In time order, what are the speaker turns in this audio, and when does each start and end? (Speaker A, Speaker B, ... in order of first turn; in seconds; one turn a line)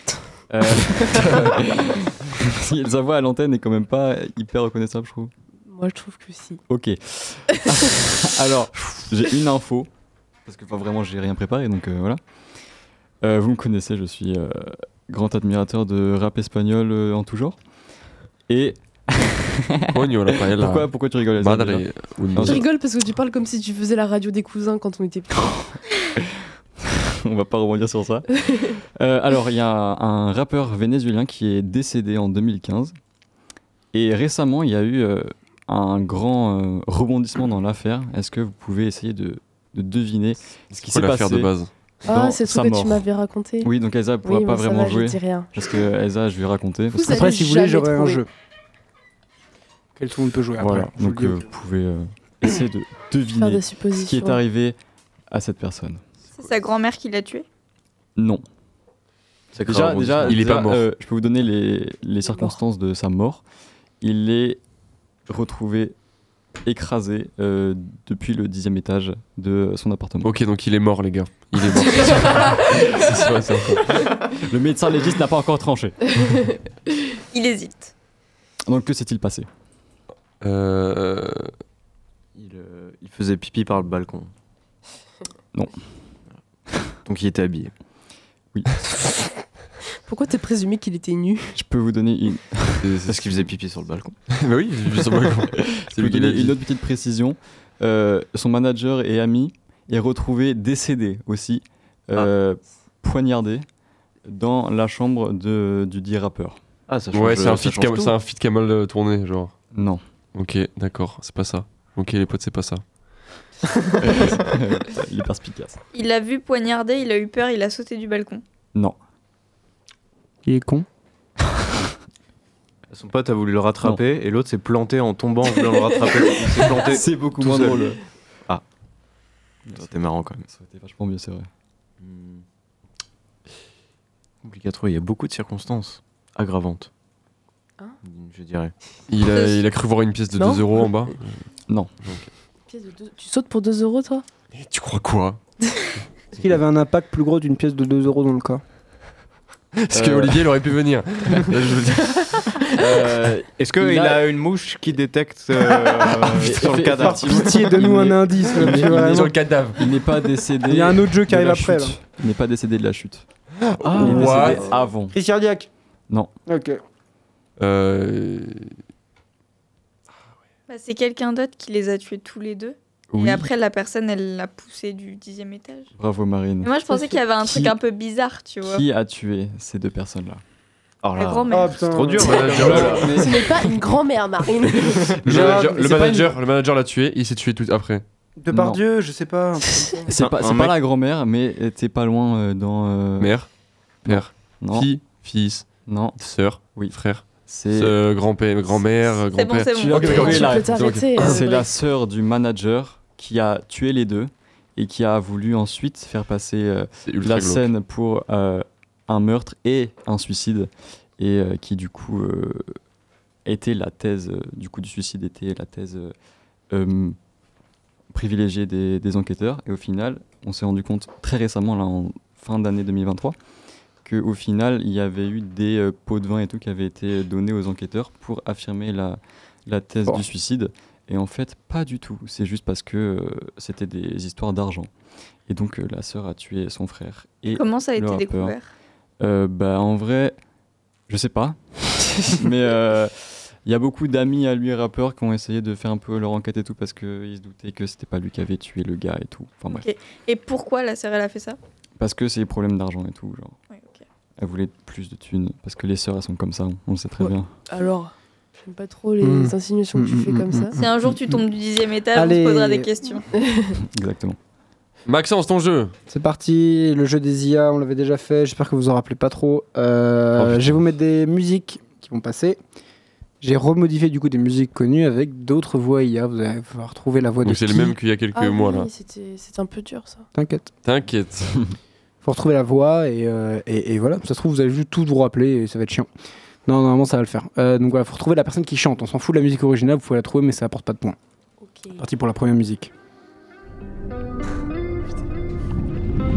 Speaker A: 0.5-5.3
Speaker B: 5.7-6.6
Speaker A: 6.7-9.9
Speaker A: 10.4-12.2
Speaker A: 13.2-17.6
Speaker A: 18.5-22.7
Speaker C: 19.9-22.6
Speaker B: 22.4-25.7
Speaker A: 26.2-32.9
Speaker B: 28.4-28.6
Speaker A: 33.9-43.1
Speaker C: 40.7-41.7
Speaker B: 42.0-45.5
Speaker A: 43.6-47.3
Speaker B: 46.9-48.2
Speaker D: 47.0-48.3
Speaker D: 50.0-51.5
Speaker A: 50.6-54.8
Speaker B: 53.4-54.4
Speaker A: 55.3-56.0
Speaker E: 56.4-57.4
Speaker A: 58.1-58.4
Speaker F: 59.5-60.5
Speaker A: 59.6-63.4
Speaker C: 60.1-60.8
Speaker B: 62.3-62.6
Speaker A: 64.0-64.6
Speaker A: 65.2-66.0
Speaker A: 66.6-70.3
Speaker C: 70.2-74.1
Speaker B: 72.0-72.8
Speaker A: 74.4-76.5
Speaker E: 77.3-77.9
Speaker A: 78.7-79.5
Speaker C: 80.4-81.5
Speaker F: 82.3-84.3
Speaker F: 87.0-87.7
Speaker B: 90.1-91.5
Speaker A: 91.5-92.9
Speaker C: 92.8-93.5
Speaker F: 93.0-94.2
Speaker C: 94.4-96.6
Speaker A: 95.7-103.7
Speaker A: 104.2-106.6
Speaker F: 106.9-108.2
Speaker C: 107.1-109.6
Speaker A: 109.7-110.0
Speaker C: 110.3-112.8
Speaker A: 114.0-115.8
Speaker E: 115.9-118.4
Speaker D: 120.5-120.8
Speaker F: 122.9-127.9
Speaker A: 126.8-128.0
Speaker A: 129.7-131.5
Speaker F: 129.7-130.4
Speaker F: 132.0-132.4
Speaker F: 134.4-136.9
Speaker F: 138.0-138.7
Speaker C: 139.1-141.4
Speaker E: 139.3-139.6
Speaker B: 140.3-140.8
Speaker C: 142.0-142.3
Speaker B: 142.7-144.2
Speaker C: 144.5-145.4
Speaker D: 146.4-148.6
Speaker C: 149.8-152.5
Speaker A: 149.9-150.4
Speaker A: 152.8-154.2
Speaker F: 153.6-157.4
Speaker A: 156.4-163.2
Speaker D: 157.0-159.3
Speaker C: 158.8-159.8
Speaker D: 160.6-162.0
Speaker C: 163.7-164.7
Speaker F: 163.8-164.7
Speaker A: 163.9-165.2
Speaker D: 165.1-165.7
Speaker D: 166.5-166.8
Speaker C: 167.6-168.7
Speaker E: 170.7-175.9
Speaker A: 173.1-173.5
Speaker A: 175.9-176.8
Speaker E: 176.6-178.8
Speaker B: 176.9-177.2
Speaker A: 177.4-177.7
Speaker A: 178.6-180.4
Speaker F: 181.0-183.3
Speaker E: 181.2-182.2
Speaker D: 181.5-182.9
Speaker C: 182.2-183.2
Speaker A: 182.6-183.9
Speaker B: 183.1-185.1
Speaker D: 185.2-186.3
Speaker C: 185.2-188.0
Speaker D: 188.4-189.9
Speaker A: 188.5-188.8
Speaker A: 190.1-193.5
Speaker F: 190.1-190.8
Speaker C: 193.2-201.4
Speaker A: 194.0-195.0
Speaker A: 195.8-198.0
Speaker E: 199.3-200.5
Speaker A: 199.7-212.7
Speaker B: 200.0-201.7
Speaker C: 207.1-207.6
Speaker A: 213.4-216.1
Speaker A: 216.7-217.2
Speaker A: 218.1-223.3
Speaker A: 224.0-234.9
Speaker A: 235.5-238.6
Speaker E: 237.5-238.7
Speaker A: 239.2-240.4
Speaker A: 241.1-249.9
Speaker E: 249.7-251.6
Speaker A: 252.0-253.6
Speaker E: 253.7-254.0
Speaker A: 254.4-257.5
Speaker B: 257.2-258.1
Speaker B: 258.6-260.8
Speaker D: 259.2-261.4
Speaker E: 260.8-263.2
Speaker D: 262.1-262.9
Speaker B: 263.3-263.7
Speaker A: 263.8-264.4
Speaker C: 265.1-265.9
Speaker D: 266.1-272.6
Speaker D: 273.4-278.0
Speaker C: 277.4-278.9
Speaker B: 278.3-280.3
Speaker D: 280.3-280.7
Speaker C: 280.8-281.5
Speaker D: 282.2-286.1
Speaker D: 286.6-291.2
Speaker B: 291.6-292.0
Speaker D: 292.0-292.9